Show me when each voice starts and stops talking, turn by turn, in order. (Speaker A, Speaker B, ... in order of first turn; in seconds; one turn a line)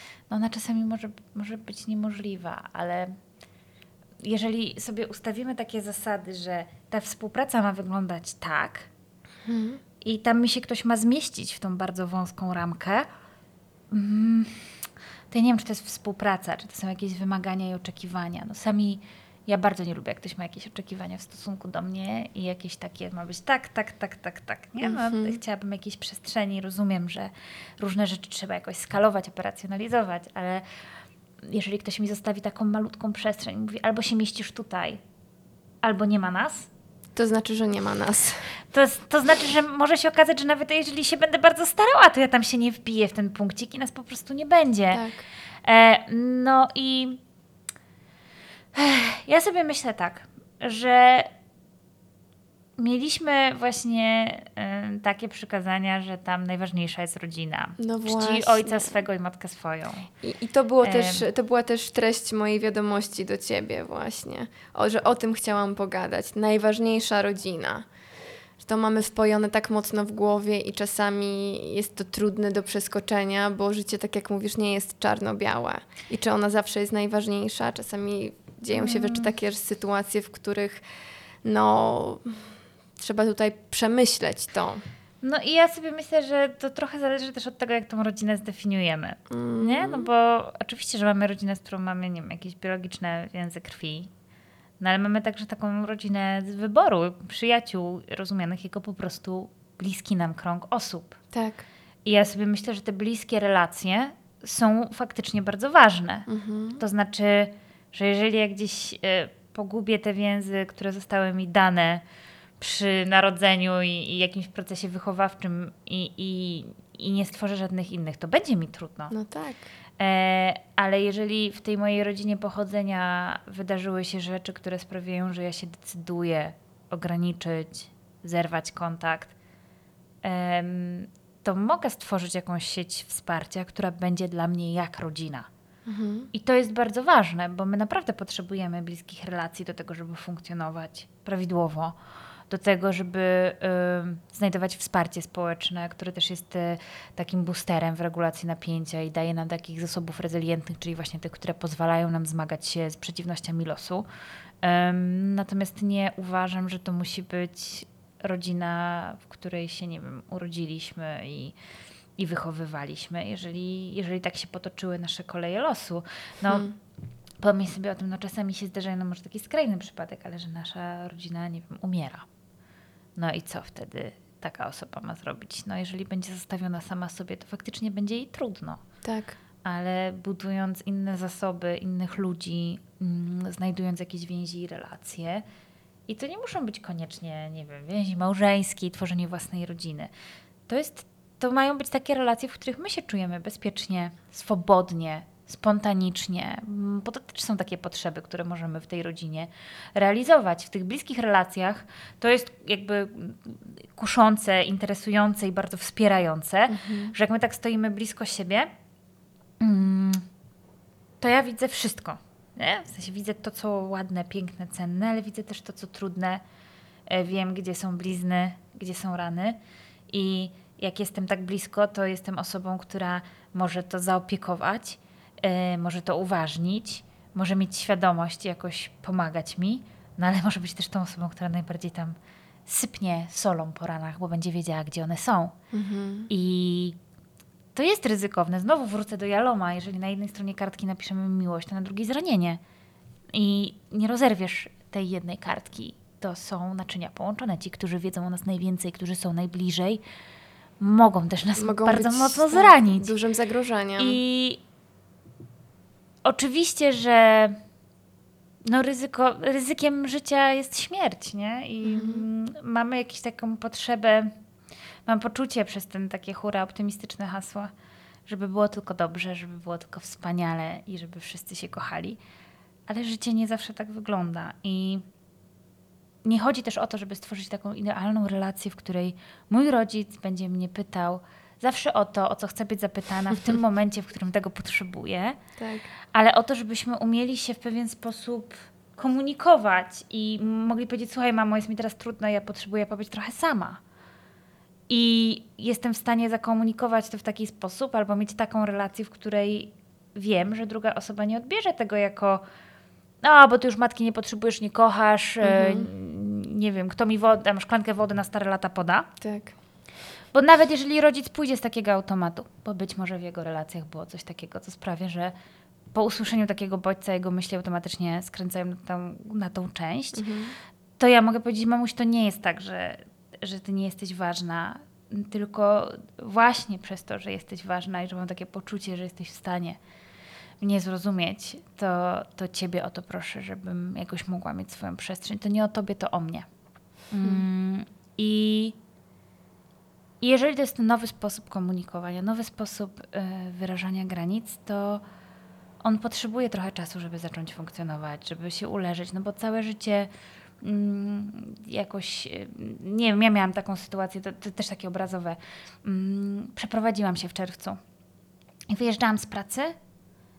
Speaker A: 0.3-3.1
Speaker A: 4.2-8.9
Speaker B: 9.4-9.8
Speaker A: 10.0-13.1
Speaker A: 13.9-14.7
Speaker A: 15.3-30.6
Speaker B: 24.8-25.4
Speaker A: 31.5-35.0
Speaker A: 35.8-36.7
Speaker B: 37.1-38.5
Speaker A: 38.7-45.0
Speaker B: 44.9-45.2
Speaker A: 45.6-47.2
Speaker A: 48.7-51.3
Speaker A: 52.8-60.1
Speaker B: 57.8-58.9
Speaker B: 60.2-67.8
Speaker A: 60.8-61.2
Speaker B: 68.6-80.8
Speaker A: 78.7-79.3
Speaker B: 81.4-84.8
Speaker A: 85.2-94.1
Speaker B: 89.3-90.1
Speaker A: 94.8-101.2
Speaker B: 101.3-101.6
Speaker A: 102.0-112.0
Speaker B: 106.3-106.8
Speaker A: 112.6-119.1
Speaker B: 119.1-119.6
Speaker A: 120.0-129.3
Speaker A: 130.2-135.5
Speaker B: 135.8-136.3
Speaker A: 136.3-141.9
Speaker A: 142.5-154.0
Speaker A: 154.6-161.5
Speaker A: 162.2-166.7
Speaker B: 166.4-166.7
Speaker A: 167.4-172.2
Speaker A: 173.2-178.8
Speaker B: 179.0-179.4
Speaker A: 179.6-185.4
Speaker A: 186.1-190.1
Speaker A: 190.7-208.7
Speaker B: 206.7-207.1
Speaker A: 209.6-210.2
Speaker A: 211.2-216.4
Speaker A: 217.1-219.6
Speaker A: 220.1-235.6
Speaker B: 235.7-236.3
Speaker A: 236.3-237.0
Speaker A: 237.7-242.6
Speaker A: 243.3-250.0
Speaker A: 250.8-253.1
Speaker B: 251.6-254.2
Speaker A: 254.0-254.6
Speaker A: 256.2-257.6
Speaker A: 258.6-264.3
Speaker B: 261.8-262.2
Speaker A: 265.1-267.7
Speaker A: 268.3-272.2
Speaker A: 272.9-275.0
Speaker A: 276.2-285.4
Speaker B: 285.6-285.9
Speaker A: 286.1-293.8
Speaker A: 294.9-302.4
Speaker A: 303.2-309.1
Speaker B: 305.4-305.9
Speaker B: 309.2-309.5
Speaker A: 310.3-315.3
Speaker A: 315.9-320.2
Speaker B: 320.1-320.5
Speaker A: 321.0-329.8
Speaker A: 330.6-336.4
Speaker A: 337.1-338.8
Speaker A: 340.2-345.0
Speaker A: 345.8-350.1
Speaker A: 350.6-357.8
Speaker A: 358.7-359.7